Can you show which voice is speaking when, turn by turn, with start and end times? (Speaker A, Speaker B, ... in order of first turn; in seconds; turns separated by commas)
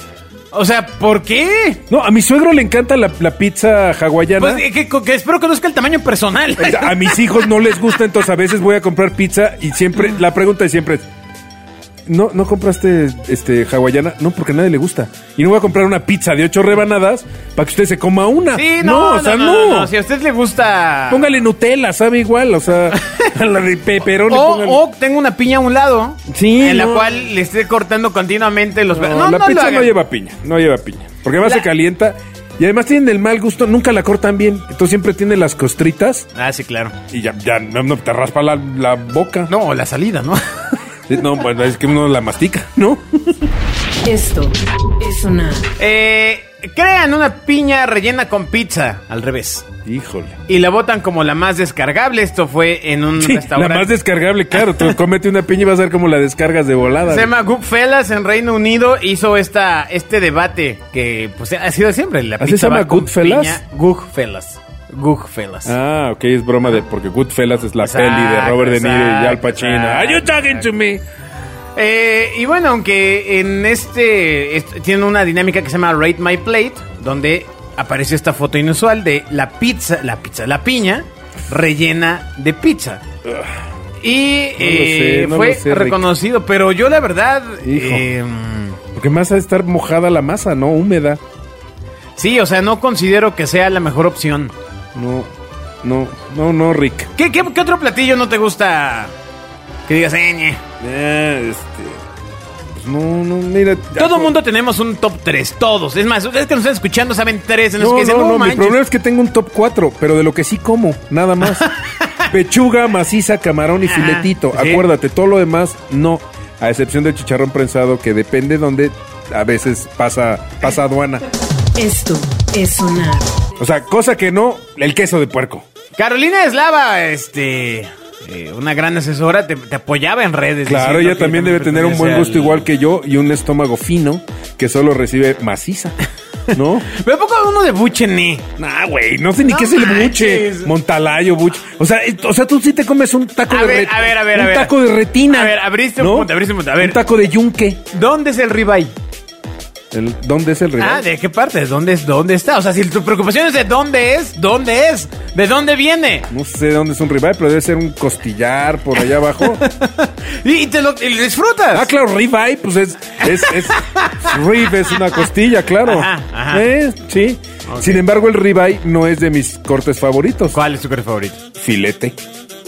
Speaker A: 0.5-1.8, Speaker B: 1.9-4.6, Speaker A: 4.4-7.4, Speaker B: 6.6-11.1, Speaker B: 12.1-19.9, Speaker A: 18.6-21.3, Speaker B: 21.1-24.8, Speaker A: 23.0-23.3, Speaker A: 24.3-29.9, Speaker B: 26.3-27.1, Speaker B: 28.9-36.3, Speaker A: 36.4-37.0, Speaker B: 37.1-39.5, Speaker A: 39.5-40.7, Speaker B: 41.1-43.2, Speaker C: 44.0-45.7, Speaker A: 45.8-49.7, Speaker B: 49.9-50.4, Speaker A: 50.5-53.9, Speaker B: 53.2-57.3, Speaker A: 57.1-65.7, Speaker B: 62.4-63.6, Speaker B: 65.7-71.0, Speaker A: 67.8-70.6, Speaker A: 71.8-83.0, Speaker B: 83.2-83.5, Speaker A: 84.0-88.8, Speaker B: 84.6-86.0, Speaker B: 87.6-88.0, Speaker B: 88.9-91.2, Speaker A: 92.2-94.5, Speaker B: 95.0-95.3, Speaker B: 95.8-97.1, Speaker A: 97.2-99.1, Speaker A: 99.9-100.6, Speaker B: 100.8-102.0, Speaker B: 102.7-104.3, Speaker A: 104.0-108.8, Speaker B: 107.8-111.7, Speaker A: 111.4-112.2, Speaker B: 112.3-121.2, Speaker A: 113.9-114.8, Speaker C: 121.8-123.4, Speaker B: 123.6-125.7, Speaker A: 126.0-132.7, Speaker B: 130.7-136.0, Speaker B: 136.5-136.9, Speaker A: 136.8-138.5, Speaker B: 138.6-147.8, Speaker A: 139.5-140.7, Speaker A: 143.5-144.7, Speaker A: 145.3-147.0, Speaker A: 147.9-148.9, Speaker B: 149.9-151.1, Speaker A: 150.8-156.3, Speaker B: 156.3-159.6, Speaker A: 159.4-161.9, Speaker B: 161.7-170.6, Speaker A: 163.2-164.4, Speaker A: 165.8-166.7, Speaker A: 167.7-168.0, Speaker A: 170.5-171.4, Speaker B: 171.6-172.2